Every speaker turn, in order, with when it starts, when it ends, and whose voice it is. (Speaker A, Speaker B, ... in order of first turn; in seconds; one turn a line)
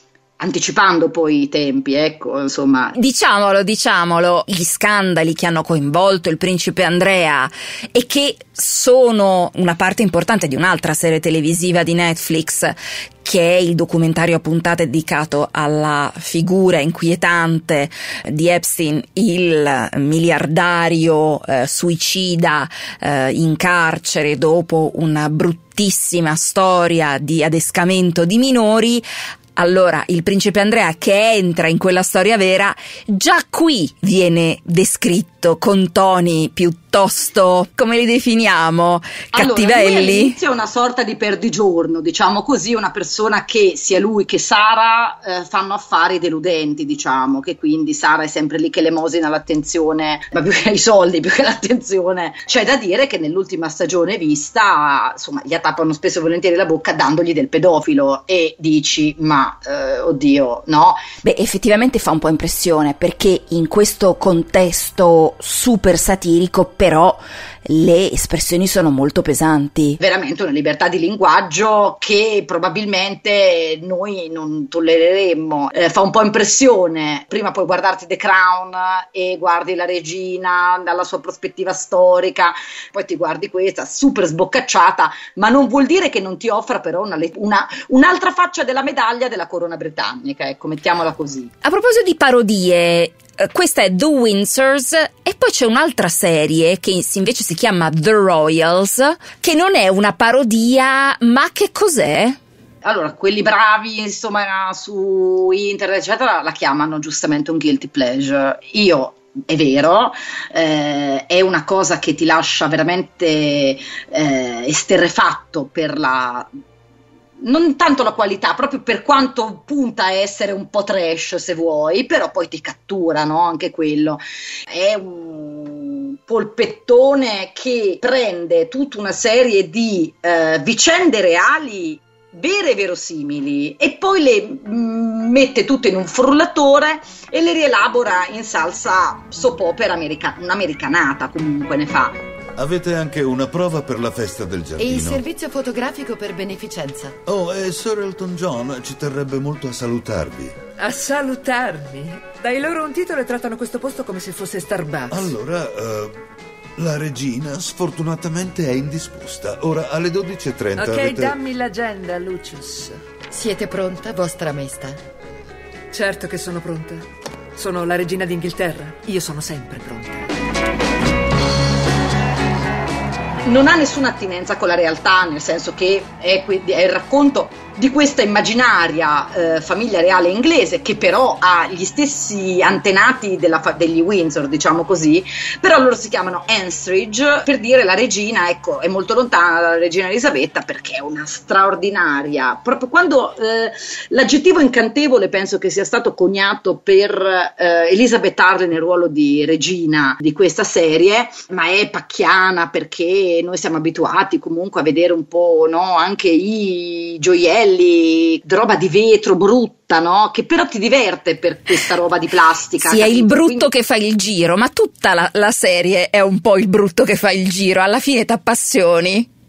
Speaker A: 0.4-2.9
Speaker B: 2.9-40.4
Speaker A: 39.3-61.0
Speaker B: 61.2-70.0
Speaker A: 70.0-91.5
Speaker B: 91.6-102.4
Speaker A: 102.8-116.5
Speaker A: 117.4-142.2
Speaker C: 142.6-145.2
Speaker D: 144.8-147.2
Speaker C: 147.3-150.6
Speaker E: 150.8-155.3
Speaker C: 155.1-156.2
Speaker C: 156.8-161.4
Speaker E: 160.8-163.0
Speaker D: 163.3-165.0
Speaker E: 165.9-170.3
Speaker A: 173.4-213.7
Speaker B: 212.8-219.3